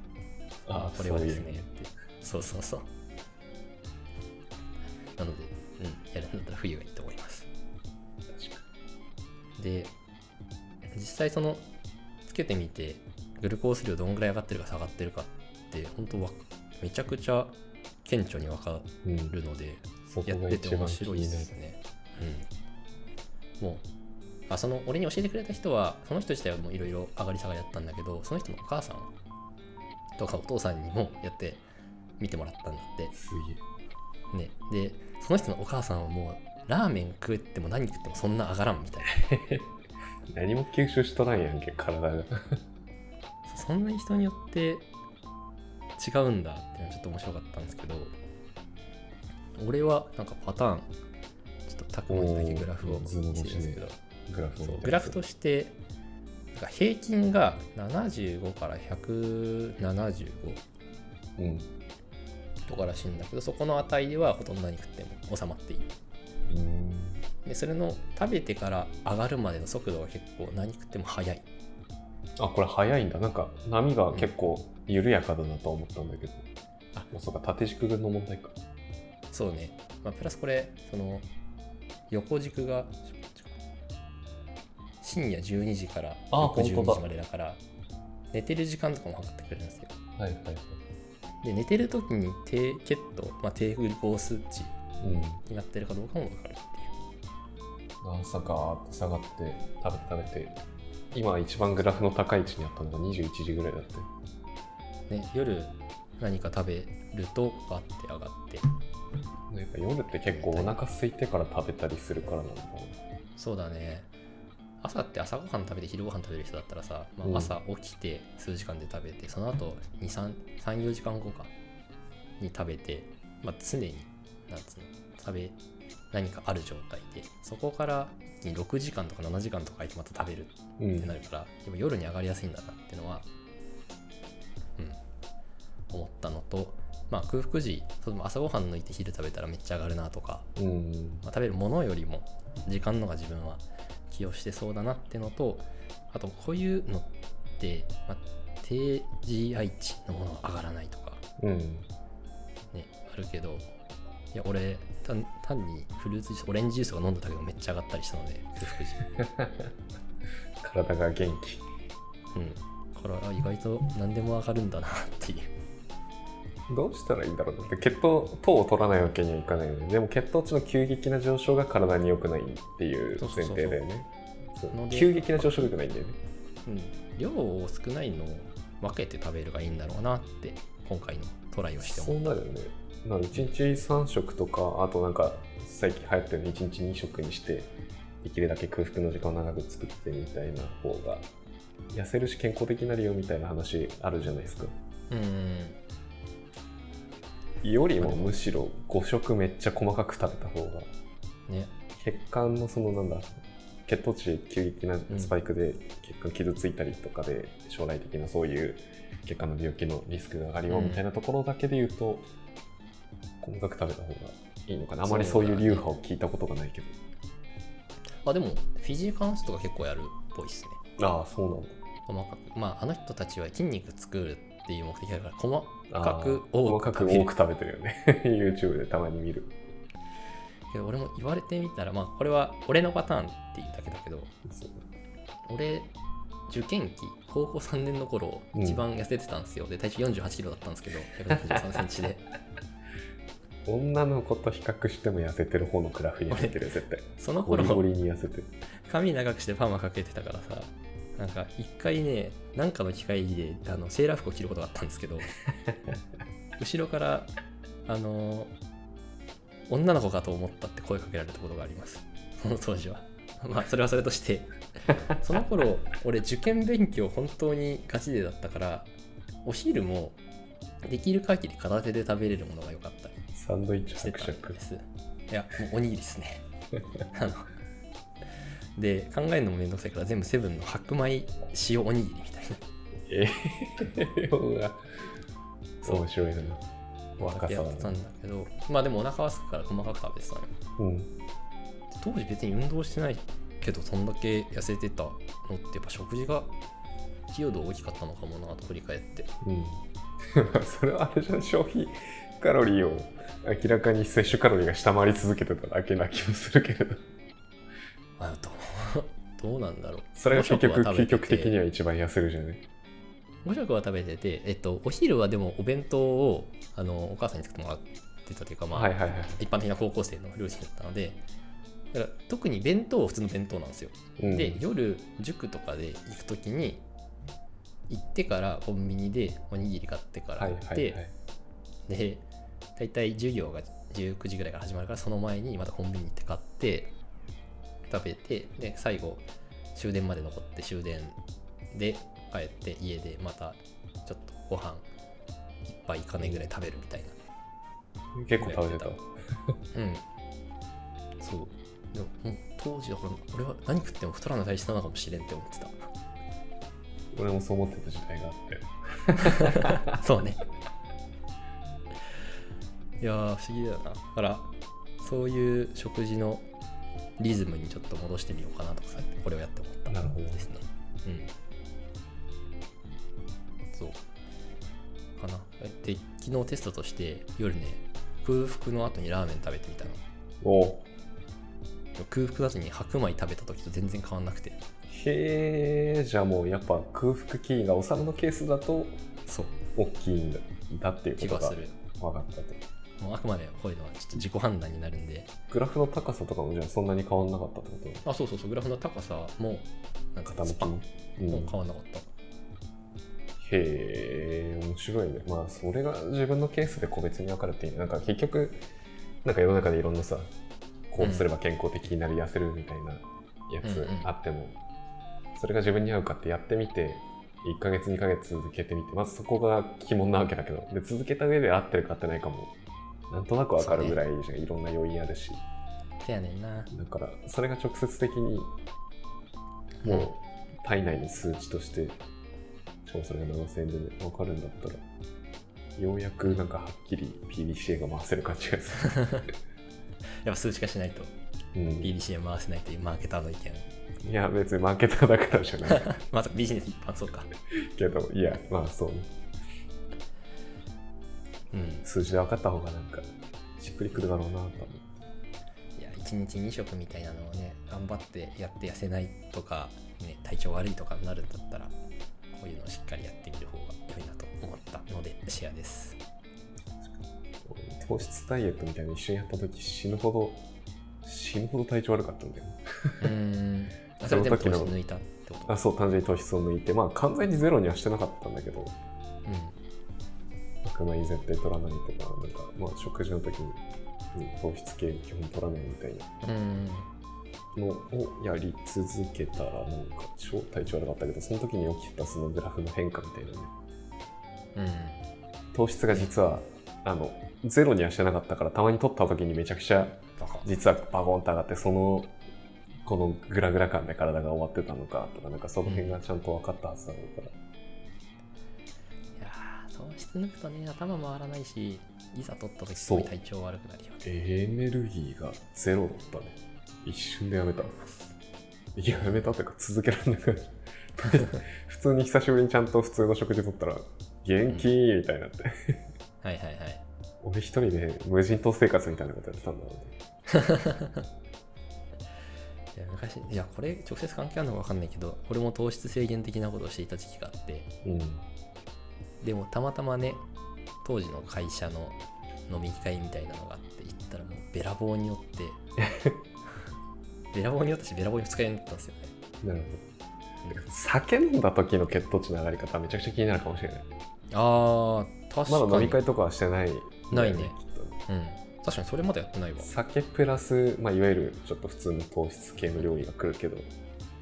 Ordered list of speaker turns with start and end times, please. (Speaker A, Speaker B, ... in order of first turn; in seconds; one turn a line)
Speaker A: 0.7-1.7
Speaker B: 0.7-2.9
Speaker B: 5.2-7.5
Speaker A: 8.3-8.6
Speaker B: 9.6-9.9
Speaker B: 10.9-11.7
Speaker B: 12.3-22.5
Speaker A: 19.0-19.4
Speaker A: 20.1-21.5
Speaker B: 23.6-23.9
Speaker B: 24.5-29.1
Speaker B: 30.2-31.6
Speaker B: 32.2-33.1
Speaker A: 33.1-33.6
Speaker B: 34.3-39.2
Speaker A: 39.1-39.7
Speaker A: 40.3-42.6
Speaker B: 43.5-44.9
Speaker B: 46.0-48.1
Speaker B: 49.6-50.9
Speaker B: 51.7-54.0
Speaker A: 52.1-55.2
Speaker B: 54.6-55.8
Speaker B: 56.5-60.6
Speaker A: 61.4-61.7
Speaker B: 62.7-65.9
Speaker A: 66.5-67.2
Speaker B: 67.5-71.5
Speaker A: 72.4-76.5
Speaker A: 77.1-78.5
Speaker B: 79.3-81.3
Speaker B: 82.1-83.5
Speaker B: 85.0-87.6
Speaker A: 86.3-87.0
Speaker B: 88.3-89.9
Speaker A: 90.2-90.8
Speaker B: 91.4-94.8
Speaker A: 95.0-95.4
Speaker B: 95.5-96.9
Speaker A: 98.0-100.6
Speaker A: 101.1-104.1
Speaker B: 105.1-108.7
Speaker A: 109.5-113.0
Speaker B: 110.3-110.8
Speaker B: 113.4-114.1
Speaker B: 114.8-121.5
Speaker A: 117.2-117.6
Speaker B: 122.4-125.6
Speaker B: 126.1-133.3
Speaker A: 130.8-131.1
Speaker B: 135.9-140.5
Speaker A: 140.6-141.2
Speaker B: 141.2-151.2
Speaker A: 151.4-151.9
Speaker B: 152.7-153.7
Speaker B: 154.3-159.0
Speaker A: 159.1-159.7
Speaker A: 160.6-161.7
Speaker B: 162.3-165.5
Speaker A: 166.7-176.2
Speaker B: 173.2-173.8
Speaker B: 174.7-175.7
Speaker B: 176.7-182.3
Speaker A: 181.8-187.7
Speaker A: 188.2-191.3
Speaker A: 191.9-194.7
Speaker B: 195.1-195.8
Speaker A: 197.6-200.9
Speaker B: 198.0-198.3
Speaker A: 202.0-203.3
Speaker A: 203.9-212.3
Speaker B: 210.7-211.0
Speaker A: 213.4-217.0
Speaker B: 215.0-216.0
Speaker B: 218.2-220.8
Speaker A: 221.0-221.8
Speaker B: 222.1-227.3
Speaker A: 225.9-229.6
Speaker B: 230.7-234.3
Speaker A: 234.5-234.8
Speaker B: 235.5-235.9
Speaker B: 236.5-242.2
Speaker A: 238.6-238.8
Speaker A: 243.7-248.5
Speaker B: 246.3-246.6
Speaker B: 247.2-247.9
Speaker B: 248.9-255.3
Speaker B: 256.6-257.3
Speaker B: 257.9-258.5
Speaker B: 259.7-264.5
Speaker B: 265.1-268.9
Speaker B: 269.4-270.2
Speaker B: 270.9-273.2
Speaker A: 273.3-274.6
Speaker B: 274.0-276.5
Speaker B: 277.1-277.5
Speaker B: 278.8-282.6
Speaker A: 283.1-284.8
Speaker A: 285.8-286.6
Speaker A: 287.2-288.0
Speaker B: 287.2-290.5
Speaker A: 290.8-291.1
Speaker B: 291.9-296.5
Speaker B: 297.3-299.3
Speaker A: 299.4-307.1
Speaker B: 308.2-311.6
Speaker A: 310.2-312.6
Speaker B: 313.4-321.2
Speaker A: 318.7-319.4
Speaker B: 321.9-326.8
Speaker A: 324.2-324.6
Speaker B: 327.9-331.0
Speaker A: 330.4-331.1
Speaker B: 331.9-332.2
Speaker B: 332.8-336.9
Speaker B: 337.9-341.2
Speaker B: 341.7-344.9
Speaker B: 345.7-347.2
Speaker A: 346.2-346.5
Speaker A: 348.1-349.6
Speaker B: 348.4-348.9
Speaker B: 349.7-350.0
Speaker B: 351.2-355.9
Speaker A: 357.1-359.9
Speaker B: 359.1-360.4
Speaker B: 363.0-364.5
Speaker B: 365.0-366.5
Speaker B: 367.2-371.3
Speaker A: 369.9-370.5
Speaker B: 373.7-374.0
Speaker B: 375.2-380.0
Speaker A: 380.4-380.9
Speaker B: 382.0-384.6
Speaker A: 384.9-389.0
Speaker B: 389.3-389.6
Speaker A: 389.8-392.6
Speaker B: 391.2-391.8
Speaker B: 393.0-395.3
Speaker A: 395.5-398.0
Speaker B: 398.1-402.1
Speaker A: 400.3-401.6
Speaker A: 403.4-408.6
Speaker A: 409.2-410.3
Speaker A: 410.9-414.6
Speaker B: 411.0-411.3
Speaker B: 413.6-414.1
Speaker A: 415.3-422.5
Speaker A: 423.1-425.4
Speaker B: 423.6-424.0
Speaker B: 426.0-426.7
Speaker A: 426.7-428.5
Speaker B: 429.8-430.1
Speaker A: 429.8-432.0
Speaker A: 432.9-434.8
Speaker A: 435.8-439.1
Speaker B: 438.8-439.3
Speaker B: 440.2-441.1
Speaker A: 441.5-441.9
Speaker B: 441.8-443.7
Speaker A: 444.0-446.0
Speaker B: 445.7-447.3
Speaker A: 447.5-449.1
Speaker B: 451.5-451.9
Speaker A: 451.8-453.1
Speaker A: 453.6-455.0
Speaker B: 455.8-461.7
Speaker B: 462.3-466.0
Speaker A: 467.4-470.4
Speaker A: 471.0-473.1
Speaker B: 473.0-475.6
Speaker A: 474.0-474.8
Speaker A: 475.5-478.8
Speaker B: 479.3-479.6
Speaker A: 480.6-483.6
Speaker A: 484.1-486.1
Speaker B: 486.2-486.9
Speaker A: 487.6-493.5
Speaker B: 494.6-495.0
Speaker A: 495.5-502.2
Speaker B: 500.2-500.5
Speaker A: 502.8-507.3
Speaker B: 505.6-506.0
Speaker B: 509.2-514.0
Speaker A: 512.8-513.1
Speaker A: 514.0-517.8
Speaker A: 518.8-525.8
Speaker B: 526.2-526.8
Speaker A: 527.2-530.0
Speaker B: 530.3-531.0
Speaker B: 532.8-537.7
Speaker A: 537.8-538.2
Speaker B: 539.2-540.2
Speaker B: 540.8-545.6
Speaker A: 545.8-546.2
Speaker B: 547.3-549.1
Speaker A: 549.4-549.9
Speaker A: 550.5-553.9
Speaker B: 554.3-556.0
Speaker A: 555.5-558.0
Speaker B: 557.1-557.5
Speaker B: 558.1-559.7
Speaker A: 559.6-563.7